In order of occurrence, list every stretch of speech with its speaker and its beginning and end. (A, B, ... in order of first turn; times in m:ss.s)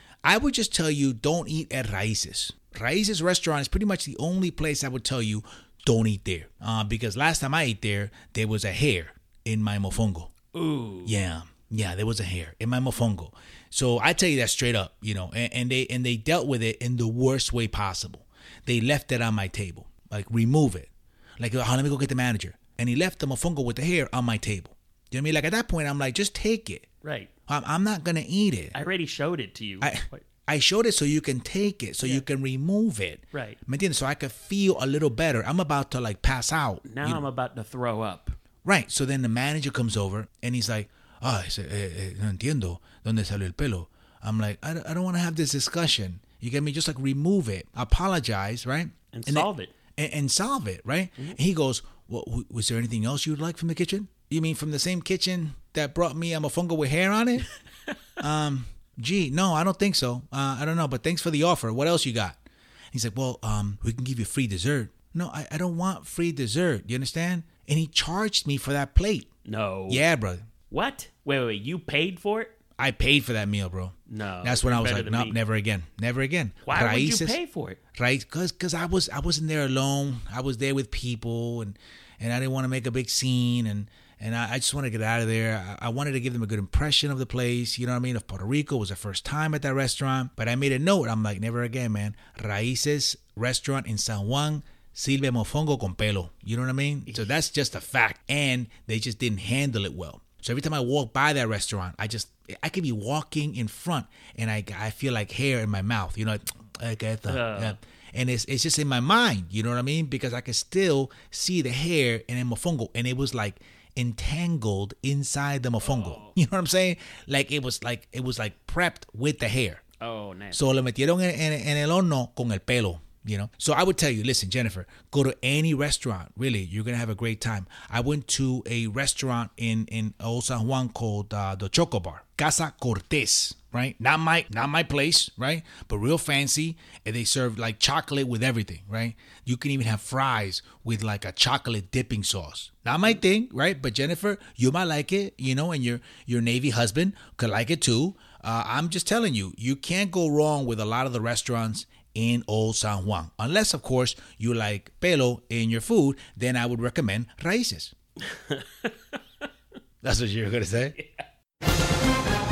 0:00.2-0:10.3 A
0:10.5-0:11.2 B
0:11.0-0:26.9 A
0:27.0-0:27.3 B
0:27.5-0:28.8 A
0:28.7-0:30.2 B
0:29.8-0:37.2 A
0:33.3-0:33.6 B
0:36.8-0:38.4 B
0:38.6-0:57.5 A
0:49.1-0:49.7 B
0:58.2-1:02.4 A
1:02.9-1:09.3 A
1:09.5-1:10.0 B
1:09.9-1:10.4 A
1:10.7-1:12.5 B
1:12.8-1:17.4 A
1:14.1-1:15.4 B
1:16.7-1:17.8 B
1:18.0-1:59.8 A
1:47.3-1:47.8 B
1:55.8-1:56.4 B
2:00.0-2:00.7 B
2:00.5-2:37.9 A
2:38.2-2:39.2 B
2:40.0-2:41.0 A
2:41.0-2:41.2 B